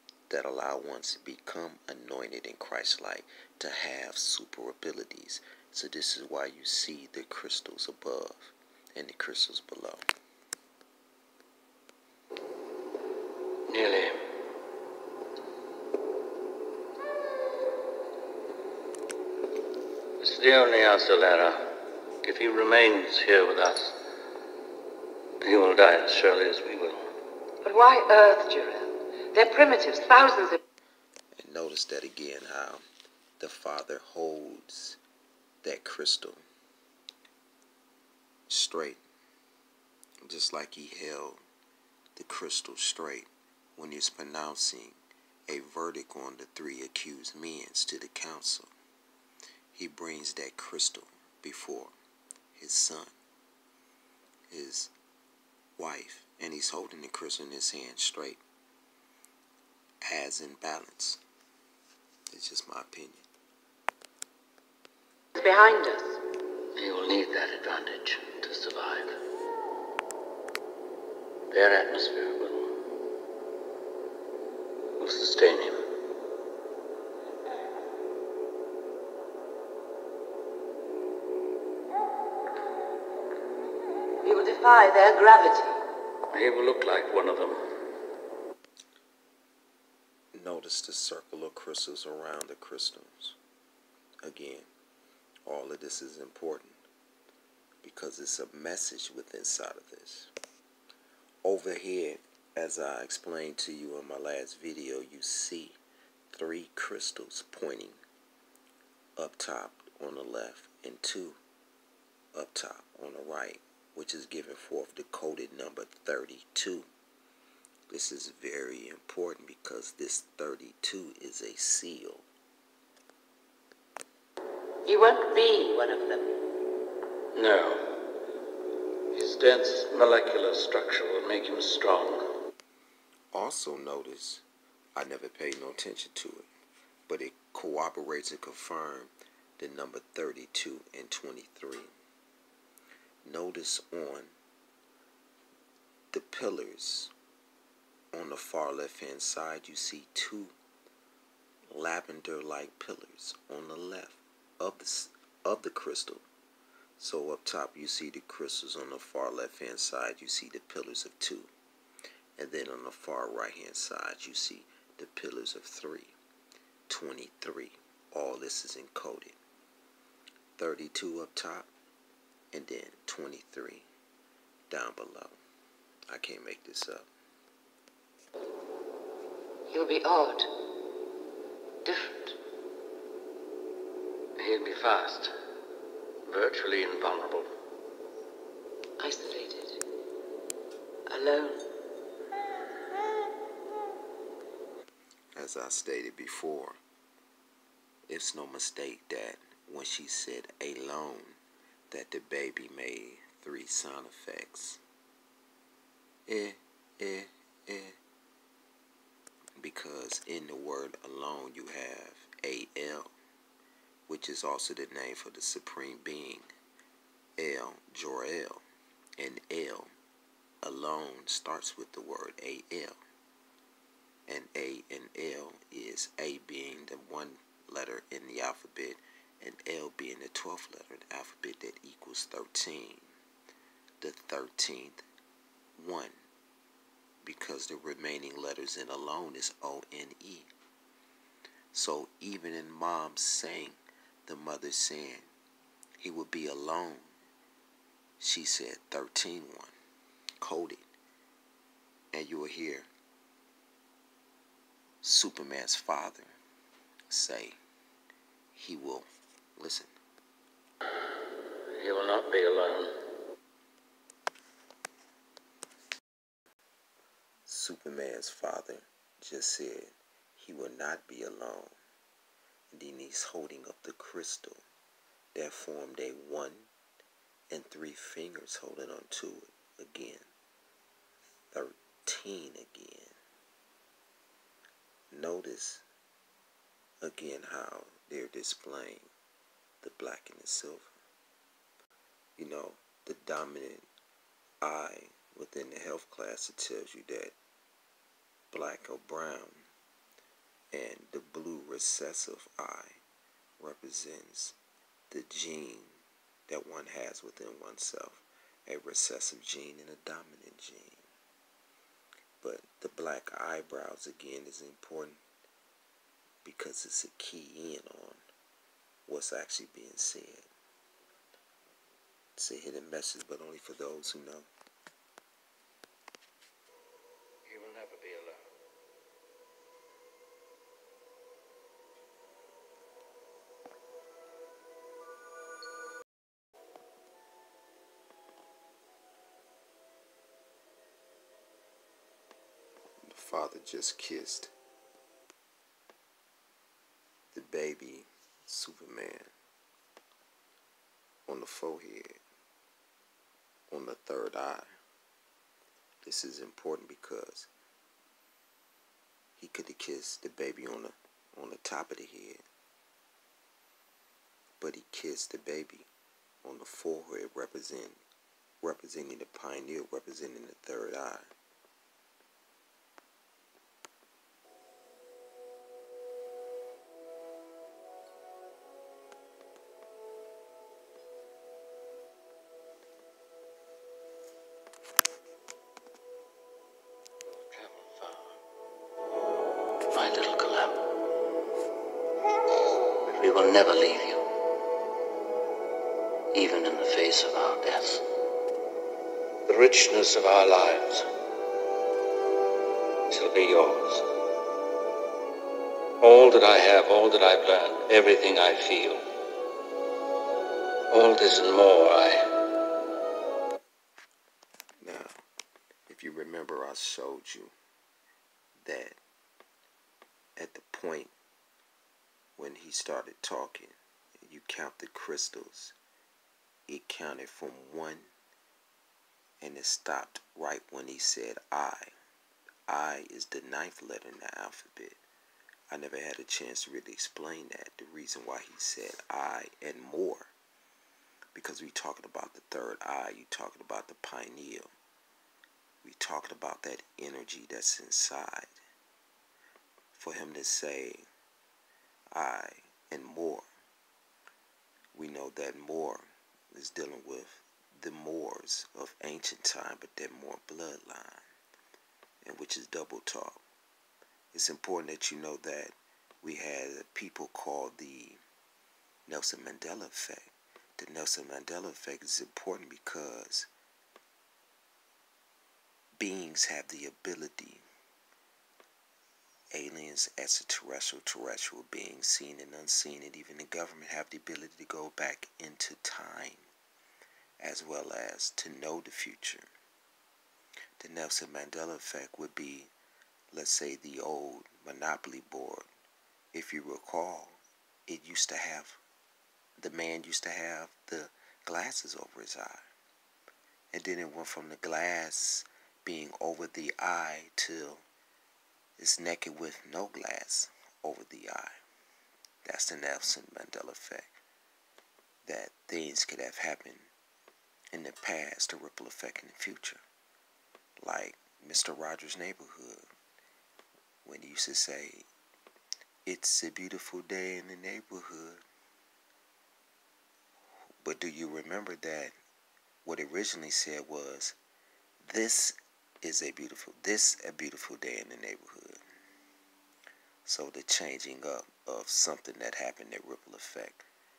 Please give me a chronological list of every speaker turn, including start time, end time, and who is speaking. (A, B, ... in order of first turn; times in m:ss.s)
0:00.3-0:10.0 A
0:13.7-0:14.3 B
0:20.2-0:24.0 B
0:25.4-0:27.1 B
0:27.6-0:30.6 C
0:31.4-0:32.8 A
0:33.4-0:35.0 A
0:35.6-0:36.4 A
0:38.5-0:39.0 A
0:40.2-0:41.4 A
0:42.2-0:48.7 A
0:49.7-0:51.9 A
0:52.6-0:53.1 A
0:54.5-0:54.9 A
0:55.8-0:58.4 A
1:00.1-1:01.2 A
1:02.3-1:03.2 A
1:05.4-1:06.2 C
1:06.8-1:09.2 B
1:11.5-1:12.8 B
1:15.0-1:15.9 B
1:24.2-1:25.8 C
1:26.3-1:27.7 B
1:30.3-1:33.4 A
1:34.2-1:34.7 A
1:35.4-1:36.8 A
1:37.8-1:40.3 A
1:41.4-1:45.8 A
1:46.3-1:48.0 A
1:49.2-1:51.4 A
1:52.3-1:56.9 A
1:57.9-2:02.3 A
2:04.8-2:06.4 C
2:07.3-2:08.1 B
2:09.1-2:12.3 B
2:13.3-2:14.4 A
2:15.0-2:16.5 A
2:17.1-2:21.9 A
2:23.2-2:24.3 A
2:26.1-2:27.1 A
2:28.1-2:30.6 A
2:31.7-2:36.3 A
2:37.0-2:41.5 A
2:42.4-2:46.2 A
2:46.9-2:49.4 A
2:50.6-2:51.7 A
2:52.5-2:53.9 A
2:54.7-2:55.4 A
2:56.1-2:57.1 A
2:59.7-3:00.5 C
3:01.8-3:02.4 C
3:04.4-3:05.3 B
3:06.3-3:07.5 B
3:09.0-3:09.8 C
3:11.1-3:11.7 C
3:15.4-3:16.8 A
3:18.1-3:21.4 A
3:21.9-3:24.8 A
3:26.3-3:28.0 A
3:29.6-3:33.1 A
3:34.1-3:36.5 A
3:37.4-3:38.6 A
3:39.2-3:39.9 A
3:40.6-3:43.0 A
3:44.3-3:53.1 A
3:54.0-3:55.0 A
3:55.8-3:56.2 A
3:57.2-4:00.5 A
4:01.7-4:05.3 A
4:06.0-4:07.1 A
4:08.2-4:09.7 A
4:10.4-4:10.8 A
4:12.1-4:12.9 A
4:15.0-4:16.4 A
4:17.1-4:17.6 A
4:18.5-4:19.9 A
4:21.8-4:22.9 B
4:27.5-4:31.8 A
4:32.7-4:34.6 A
4:35.4-4:36.7 A
4:37.5-4:40.3 A
4:41.5-4:43.2 A
4:45.1-4:45.8 A
4:47.0-4:49.1 A
4:49.8-4:50.9 A
4:52.4-4:53.9 A
4:54.6-4:57.4 A
4:58.5-4:59.7 A
5:00.7-5:03.0 A
5:03.6-5:04.6 A
5:05.1-5:11.0 A
5:12.4-5:15.2 A
5:16.4-5:18.2 A
5:19.1-5:20.5 A
5:22.4-5:24.5 A
5:27.5-5:28.4 B
5:43.1-5:44.5 A
5:47.3-5:49.3 A
5:51.3-5:52.2 A
5:53.7-5:54.7 A
5:56.0-5:57.5 A
5:59.4-6:02.4 A
6:04.6-6:05.9 A
6:06.4-6:08.0 A
6:08.6-6:11.3 A
6:27.2-6:28.3 B
6:29.9-6:30.8 B
6:33.0-6:34.2 B
6:36.3-6:38.0 B
6:39.5-6:41.1 B
6:43.1-6:44.1 B
6:46.0-6:49.0 B
6:50.9-6:52.4 B
6:54.8-6:55.1 A
6:55.9-6:57.5 A
6:58.6-6:59.0 A
7:00.4-7:01.1 A
7:02.4-7:05.8 A
7:06.7-7:08.1 A
7:09.4-7:11.9 A
7:12.7-7:15.0 A
7:15.7-7:20.3 A
7:21.4-7:24.7 A
7:25.8-7:28.6 A
7:29.9-7:31.1 A
7:32.1-7:33.5 A
7:34.9-7:41.2 A
7:42.2-7:43.4 A
7:44.3-7:48.2 A
7:49.1-7:53.5 A
7:56.0-7:57.6 A
7:59.5-8:06.5 A
8:07.4-8:09.5 A
8:10.8-8:12.7 A
8:13.3-8:15.7 A
8:16.3-8:18.8 A
8:19.6-8:22.7 A
8:23.7-8:27.8 A
8:28.8-8:31.6 A
8:32.4-8:34.2 A
8:35.2-8:36.9 A
8:37.7-8:39.8 A
8:40.8-8:42.9 A
8:44.0-8:45.1 A
8:46.1-8:48.4 A
8:50.8-8:52.1 A
8:52.8-8:54.4 A
8:55.0-8:58.8 A
9:00.2-9:03.9 A